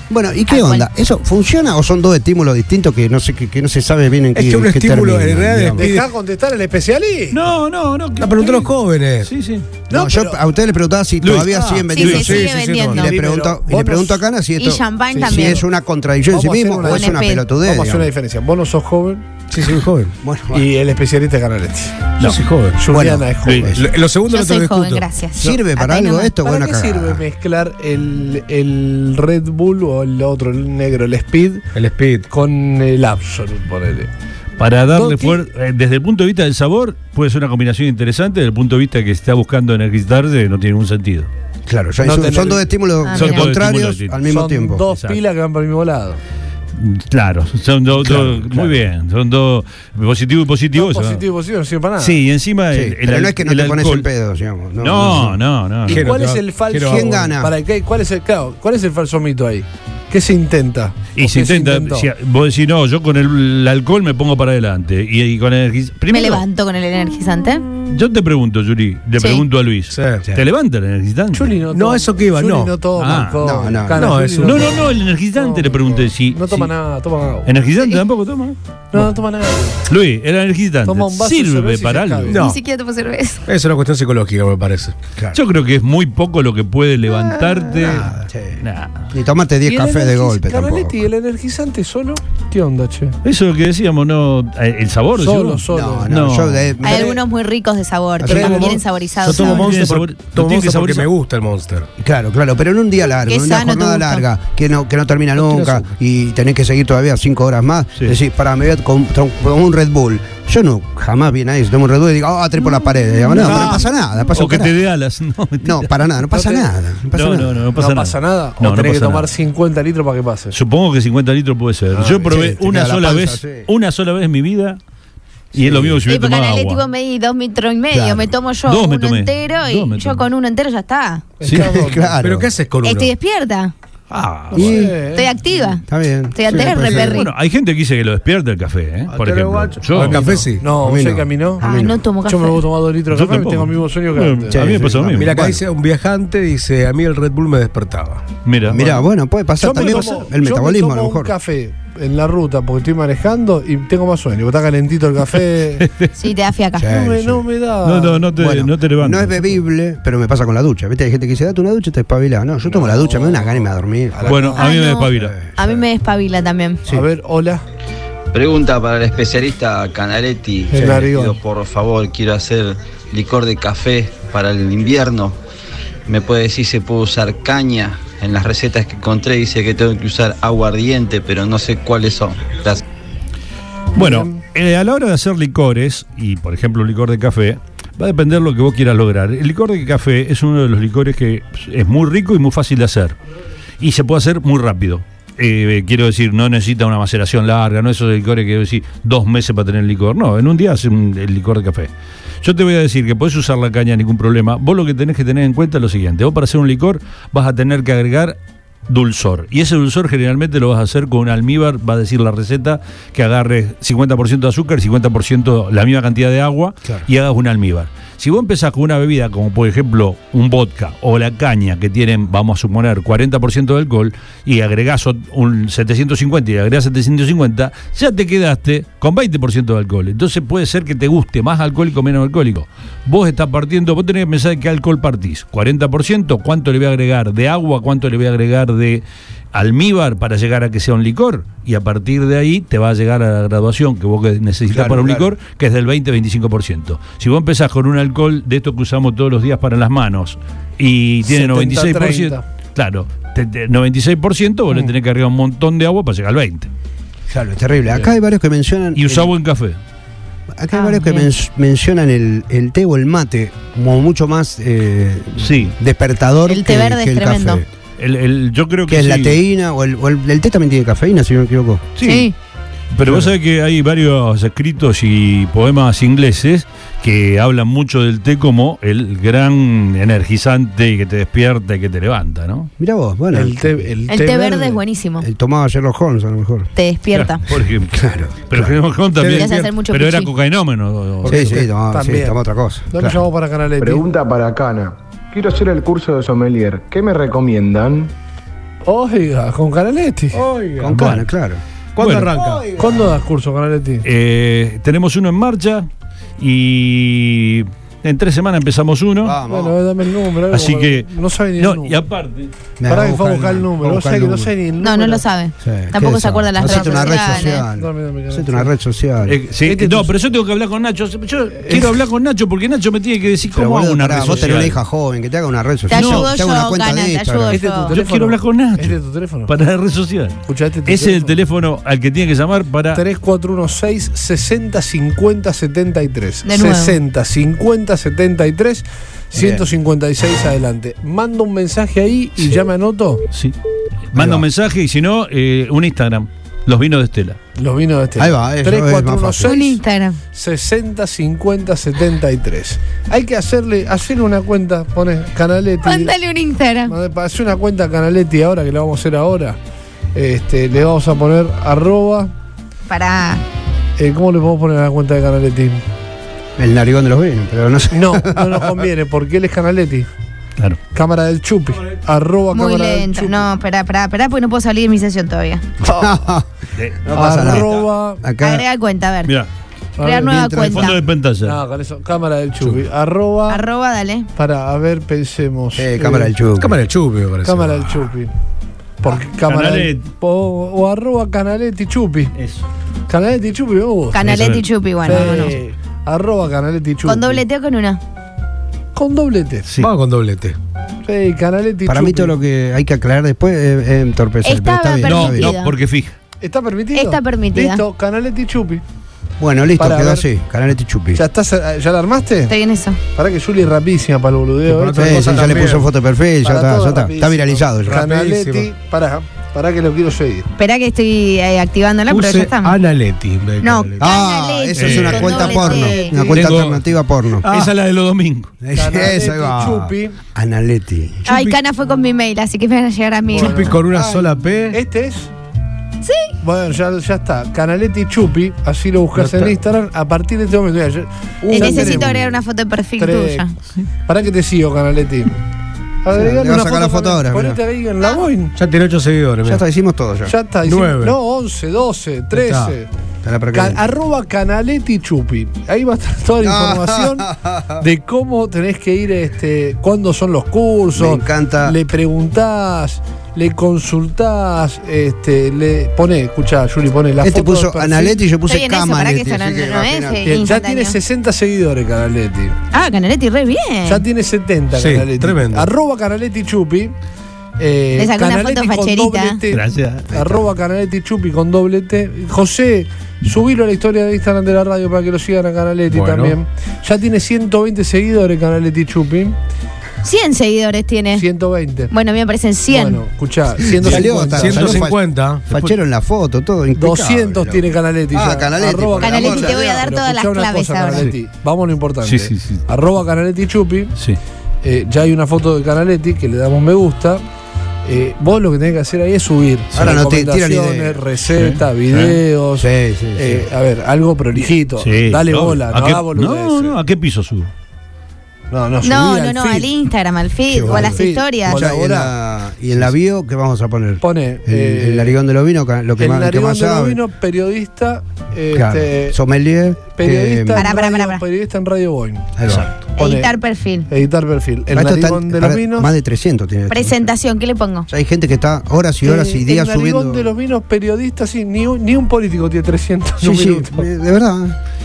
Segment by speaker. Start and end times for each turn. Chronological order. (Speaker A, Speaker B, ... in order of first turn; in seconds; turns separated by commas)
Speaker A: 0.1-5.8, Speaker B: 0.5-0.9, Speaker C: 4.3-6.1, Speaker D: 5.8-7.4, Speaker E: 7.3-8.7, Speaker C: 8.2-9.3, Speaker E: 9.2-9.7, Speaker D: 9.9-10.4, Speaker A: 9.9-18.1, Speaker E: 11.2-12.2, Speaker B: 11.9-13.1, Speaker C: 12.1-13.0, Speaker D: 12.9-14.2, Speaker B: 14.6-15.6, Speaker D: 15.1-15.5, Speaker D: 16.3-19.3, Speaker B: 16.9-17.4, Speaker C: 19.5-20.1, Speaker A: 20.2-20.7, Speaker D: 20.5-22.2, Speaker C: 22.2-22.8, Speaker D: 22.8-23.8, Speaker A: 22.9-23.9, Speaker E: 23.4-23.7, Speaker C: 23.8-25.1, Speaker B: 24.3-26.3, Speaker A: 25.4-27.2, Speaker D: 26.4-31.7, Speaker C: 31.7-32.3, Speaker D: 32.3-34.1, Speaker E: 34.6-41.3, Speaker D: 34.9-35.4, Speaker A: 41.7-44.9, Speaker D: 42.0-42.7, Speaker B: 43.0-43.4, Speaker E: 43.1-44.2, Speaker D: 44.2-46.2, Speaker E: 44.9-45.2, Speaker E: 46.8-51.2, Speaker C: 48.0-48.4, Speaker D: 50.7-52.2, Speaker E: 52.0-54.1, Speaker A: 52.7-55.4, Speaker E: 54.8-56.0, Speaker D: 55.9-62.1, Speaker C: 55.9-57.3, Speaker A: 56.8-57.5, Speaker E: 61.1-66.4, Speaker B: 66.1-67.8, Speaker E: 67.9-71.6, Speaker C: 69.9-70.2, Speaker D: 71.3-77.5, Speaker C: 71.7-72.8, Speaker E: 73.0-73.8, Speaker A: 73.4-74.1, Speaker C: 73.9-74.7, Speaker E: 74.4-76.7, Speaker E: 77.4-78.6, Speaker D: 78.9-79.8, Speaker E: 79.9-82.4, Speaker D: 80.8-82.5, Speaker C: 82.3-82.6, Speaker B: 82.3-83.4, Speaker C: 83.5-84.9, Speaker E: 85.3-88.1, Speaker A: 87.8-88.6, Speaker E: 88.6-89.0, Speaker A: 89.1-91.0, Speaker D: 89.6-93.2, Speaker E: 93.2-96.7, Speaker D: 95.2-96.1, Speaker A: 95.7-97.2, Speaker B: 96.8-99.7, Speaker A: 98.2-98.8, Speaker C: 98.2-101.9, Speaker E: 99.4-101.1, Speaker A: 102.0-114.8, Speaker B: 103.2-104.2, Speaker C: 105.4-105.9, Speaker E: 112.6-115.9, Speaker C: 113.3-113.8, Speaker A: 115.6-117.6, Speaker D: 116.3-116.7, Speaker E: 117.1-119.3, Speaker D: 117.7-120.5, Speaker E: 120.5-124.8, Speaker D: 121.9-122.3, Speaker A: 122.2-123.7, Speaker E: 125.5-126.8, Speaker A: 125.5-126.0, Speaker B: 126.1-131.3, Speaker A: 127.9-128.3, Speaker E: 128.7-130.2, Speaker D: 131.4-132.2, Speaker E: 131.4-131.8, Speaker A: 131.5-132.5, Speaker C: 132.2-133.1, Speaker B: 132.8-133.7, Speaker E: 134.1-134.9, Speaker D: 134.5-135.3, Speaker A: 134.5-134.9, Speaker B: 134.9-137.3, Speaker A: 135.9-137.2, Speaker C: 136.5-137.0, Speaker E: 136.7-140.2, Speaker C: 139.1-140.6, Speaker D: 140.0-141.6, Speaker A: 140.7-142.0, Speaker B: 141.6-142.6, Speaker D: 142.2-144.6, Speaker E: 143.1-145.3, Speaker A: 144.5-145.6, Speaker C: 145.1-148.2, Speaker E: 148.4-149.0, Speaker A: 148.7-151.3, Speaker D: 149.6-155.9, Speaker E: 149.7-150.2, Speaker E: 155.8-156.1, Speaker B: 156.2-156.9, Speaker A: 156.8-157.4, Speaker D: 156.8-158.3, Speaker E: 157.8-159.4, Speaker A: 158.3-164.5, Speaker D: 162.7-163.6, Speaker D: 164.1-164.6, Speaker E: 164.3-165.3, Speaker B: 164.6-166.8, Speaker A: 165.1-165.8, Speaker D: 166.9-167.6, Speaker F: 168.3-175.4, Speaker D: 170.7-171.4, Speaker A: 170.7-171.1, Speaker F: 176.1-182.8, Speaker D: 183.9-184.4, Speaker E: 183.9-193.2, Speaker E: 193.8-201.9, Speaker E: 202.4-208.4, Speaker E: 208.9-256.7, Speaker A: 244.7-245.3, Speaker D: 251.2-252.4, Speaker A: 257.3-259.3, Speaker E: 258.9-259.8, Speaker A: 260.6-267.7, Speaker B: 260.7-261.3, Speaker E: 265.4-265.7, Speaker B: 266.5-267.6, Speaker E: 268.0-269.4, Speaker A: 268.9-271.9, Speaker E: 271.9-272.3, Speaker B: 272.0-272.3, Speaker E: 272.9-282.7, Speaker A: 273.1-273.3, Speaker A: 282.8-283.8, Speaker D: 283.3-284.7, Speaker B: 284.1-285.3, Speaker C: 284.2-284.7, Speaker A: 285.2-286.7, Speaker B: 286.8-287.4, Speaker E: 287.1-291.6, Speaker A: 287.9-288.7, Speaker C: 289.2-289.8, Speaker B: 289.3-290.3, Speaker D: 291.2-292.4, Speaker A: 291.2-293.1, Speaker D: 292.9-294.0, Speaker G: 293.8-298.1, Speaker D: 298.8-300.4, Speaker C: 300.3-301.0, Speaker A: 300.8-301.6, Speaker E: 300.9-301.3, Speaker C: 301.9-303.0, Speaker E: 302.0-302.3, Speaker A: 302.3-302.9, Speaker D: 302.8-304.0, Speaker E: 304.0-305.9, Speaker E: 306.4-309.4, Speaker A: 309.2-309.8, Speaker D: 309.4-312.0, Speaker E: 310.5-312.5, Speaker A: 312.8-314.5, Speaker D: 312.9-315.2, Speaker B: 314.8-317.6, Speaker A: 315.6-319.4, Speaker D: 316.6-318.7, Speaker E: 319.2-324.8, Speaker D: 319.6-320.1, Speaker D: 321.6-322.0, Speaker A: 323.5-327.6, Speaker D: 324.2-324.5, Speaker B: 325.9-327.9, Speaker E: 325.9-326.3, Speaker D: 327.5-329.5, Speaker E: 327.9-333.0, Speaker D: 330.4-331.3, Speaker D: 332.9-343.2, Speaker B: 336.4-337.0, Speaker A: 339.3-339.6, Speaker E: 344.1-347.4, Speaker A: 344.1-344.4, Speaker D: 347.6-349.8, Speaker A: 348.2-349.5, Speaker B: 349.4-350.2, Speaker D: 350.3-356.1, Speaker B: 355.8-356.9, Speaker D: 356.9-359.6, Speaker D: 360.1-362.3, Speaker B: 362.9-363.4, Speaker D: 364.0-365.8, Speaker A: 366.6-368.8, Speaker D: 367.9-370.1, Speaker D: 370.9-373.4, Speaker B: 372.5-375.6, Speaker A: 375.8-376.5, Speaker E: 376.8-377.8, Speaker A: 377.0-378.6, Speaker D: 377.1-378.2, Speaker B: 378.4-379.3, Speaker D: 380.0-380.8, Speaker B: 380.0-380.9, Speaker A: 380.1-380.9, Speaker E: 380.6-381.6, Speaker D: 381.4-383.6, Speaker B: 383.5-384.3, Speaker D: 384.4-386.3, Speaker A: 385.7-386.7, Speaker C: 386.6-388.1, Speaker D: 387.4-388.3, Speaker D: 389.0-392.3, Speaker E: 389.3-390.0, Speaker E: 392.4-392.6, Speaker D: 393.1-394.3, Speaker B: 394.1-395.5, Speaker E: 394.2-395.4, Speaker D: 395.0-397.4, Speaker B: 397.0-398.0, Speaker D: 398.9-399.7, Speaker C: 399.8-400.6, Speaker D: 401.0-402.3, Speaker A: 401.9-405.5, Speaker B: 404.4-405.7, Speaker E: 405.0-406.1, Speaker D: 406.4-408.8, Speaker B: 406.9-407.8, Speaker A: 409.4-411.2, Speaker D: 409.8-410.2, Speaker D: 411.1-412.5, Speaker B: 412.5-413.0, Speaker D: 413.1-415.5, Speaker C: 414.7-415.9, Speaker A: 415.0-418.0, Speaker D: 416.4-420.5, Speaker C: 417.9-418.7, Speaker B: 420.6-422.7, Speaker C: 422.1-424.1, Speaker B: 423.6-426.4, Speaker A: 424.0-427.5, Speaker E: 424.8-425.4, Speaker D: 425.5-426.3, Speaker E: 426.3-426.8, Speaker C: 427.4-427.7, Speaker E: 427.4-428.5, Speaker A: 428.6-431.3, Speaker D: 428.7-430.2, Speaker B: 431.3-433.7, Speaker C: 431.3-431.6, Speaker D: 433.3-433.7, Speaker C: 433.4-434.8, Speaker A: 433.9-434.2, Speaker D: 434.7-435.3, Speaker B: 436.0-436.3, Speaker D: 436.4-442.3, Speaker C: 439.1-439.5, Speaker A: 441.5-442.1, Speaker B: 441.5-443.5, Speaker D: 443.0-443.4, Speaker D: 444.1-445.4, Speaker D: 446.0-448.6, Speaker A: 446.1-447.6, Speaker C: 448.6-449.6, Speaker A: 449.4-450.3, Speaker D: 450.2-452.9, Speaker C: 450.6-451.2, Speaker C: 452.3-452.7, Speaker A: 453.2-453.8, Speaker D: 453.5-457.3, Speaker A: 456.4-457.8, Speaker D: 457.8-468.2, Speaker A: 460.9-461.8, Speaker A: 467.2-470.4, Speaker B: 468.5-471.0, Speaker D: 470.2-472.5, Speaker B: 472.7-474.0, Speaker D: 473.9-476.9, Speaker C: 474.7-475.7, Speaker D: 477.6-489.4, Speaker B: 477.9-479.4, Speaker E: 479.5-480.1, Speaker A: 480.1-480.4, Speaker C: 485.9-486.4, Speaker B: 490.0-491.2, Speaker D: 491.1-491.9, Speaker B: 491.9-493.0, Speaker D: 492.7-494.9, Speaker A: 493.7-499.8, Speaker C: 493.8-495.4, Speaker D: 496.8-503.9, Speaker B: 499.0-501.1, Speaker E: 502.0-502.6, Speaker D: 504.6-507.2, Speaker D: 507.8-516.8, Speaker A: 509.7-511.0, Speaker E: 511.3-512.2, Speaker A: 512.6-513.5, Speaker E: 514.8-517.5, Speaker D: 518.5-519.7, Speaker B: 518.8-521.6, Speaker A: 520.5-527.0, Speaker D: 520.6-522.1, Speaker D: 524.0-525.2, Speaker D: 526.0-529.2, Speaker A: 528.5-530.7, Speaker D: 529.8-532.3, Speaker B: 530.5-531.2, Speaker A: 532.4-532.7, Speaker D: 533.0-533.3, Speaker B: 533.0-533.9, Speaker D: 533.9-535.9, Speaker A: 534.7-537.1, Speaker B: 536.7-537.9, Speaker A: 537.9-540.3, Speaker D: 539.0-543.9, Speaker A: 543.2-544.6